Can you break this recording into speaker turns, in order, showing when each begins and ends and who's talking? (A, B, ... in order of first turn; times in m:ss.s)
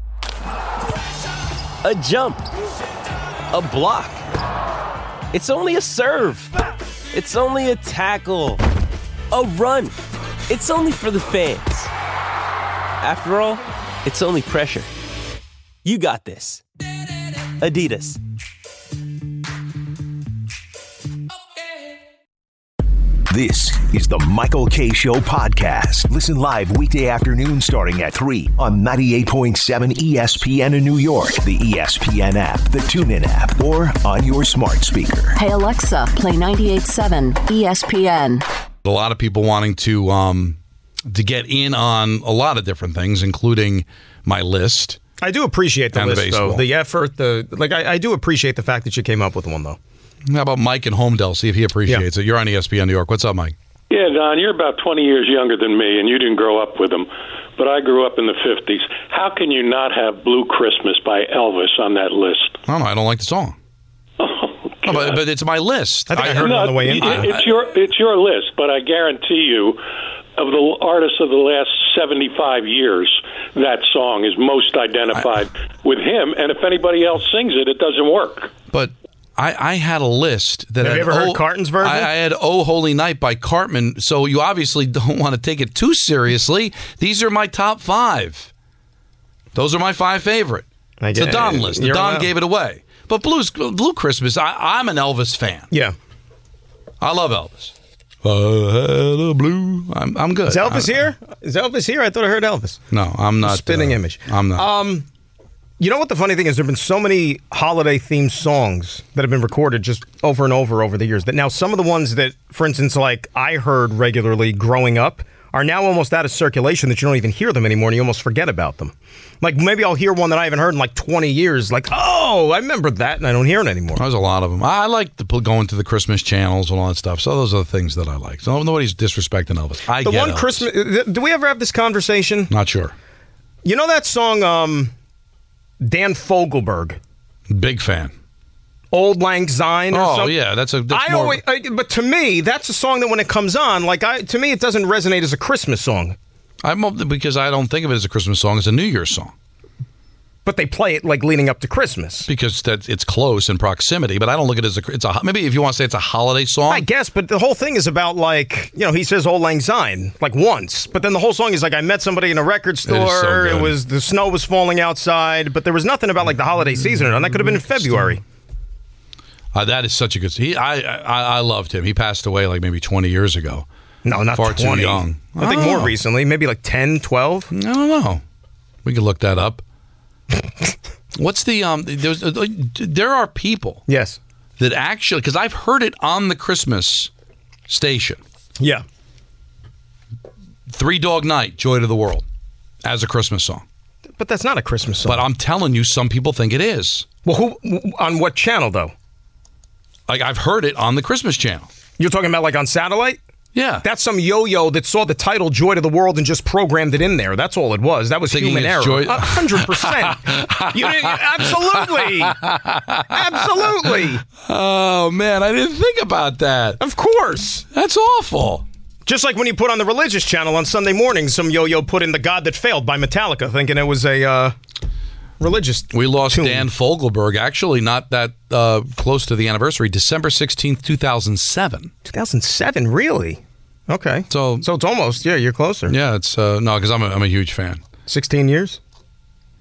0:01.8-0:02.4 A
0:03.5-0:04.2 A
0:05.3-0:06.6 A
0:07.1-0:08.6 A
0:09.3-0:09.9 A
0:10.5-0:11.9 A
0:13.0-0:14.9 A
0:15.8-0:16.6 A
0:17.6-0:18.2 A
0:23.3-0:35.4 B
0:35.4-0:38.4 C
0:38.8-0:45.0 D
0:45.2-0:49.8 E
0:45.9-0:46.6 D
0:50.2-0:53.5 D
0:53.9-1:02.6 F
1:02.7-1:03.6 D
1:04.2-1:05.2 F
1:04.8-1:07.4 D
1:06.1-1:07.3 E
1:06.2-1:09.8 F
1:10.4-1:18.5 F
1:18.7-1:28.5 D
1:20.8-1:22.1 E
1:29.5-1:35.7 D
1:31.0-1:32.3 E
1:37.0-1:41.0 D
1:40.5-1:42.8 E
1:42.9-1:44.7 D
1:43.4-1:45.0 E
1:45.8-2:04.0 E
2:04.0-2:10.6 D
2:10.0-2:12.5 E
2:12.5-2:12.9 D
2:13.6-2:14.9 E
2:15.8-2:17.0 E
2:17.5-2:18.1 D
2:18.9-2:20.3 E
2:19.9-2:21.4 D
2:20.9-2:26.2 E
2:26.6-2:29.3 D
2:30.4-2:32.3 E
2:32.3-2:36.8 D
2:36.7-2:48.2 E
2:42.8-2:43.7 D
2:47.3-2:48.1 D
2:49.5-2:53.7 D
2:54.0-2:57.5 E
2:54.3-2:55.9 D
2:57.5-2:58.2 D
2:58.8-2:59.6 D
3:01.1-3:03.8 D
3:03.9-3:04.2 E
3:04.6-3:07.1 D
3:07.7-3:08.2 D
3:10.7-3:12.2 D
3:12.8-3:13.6 D
3:14.2-3:15.2 E
3:15.0-3:17.1 D
3:17.2-3:18.9 E
3:20.1-3:21.7 D
3:22.0-3:23.2 E
3:23.5-3:23.8 D
3:23.8-3:32.4 E
3:28.3-3:33.6 D
3:33.1-3:34.2 E
3:34.4-3:36.8 D
3:36.8-3:37.6 E
3:37.7-3:38.6 D
3:39.0-3:44.6 E
3:45.4-3:46.7 E
3:45.9-3:51.9 D
3:52.0-3:55.9 E
3:54.3-3:54.6 D
3:55.9-3:57.8 D
3:58.1-3:58.8 E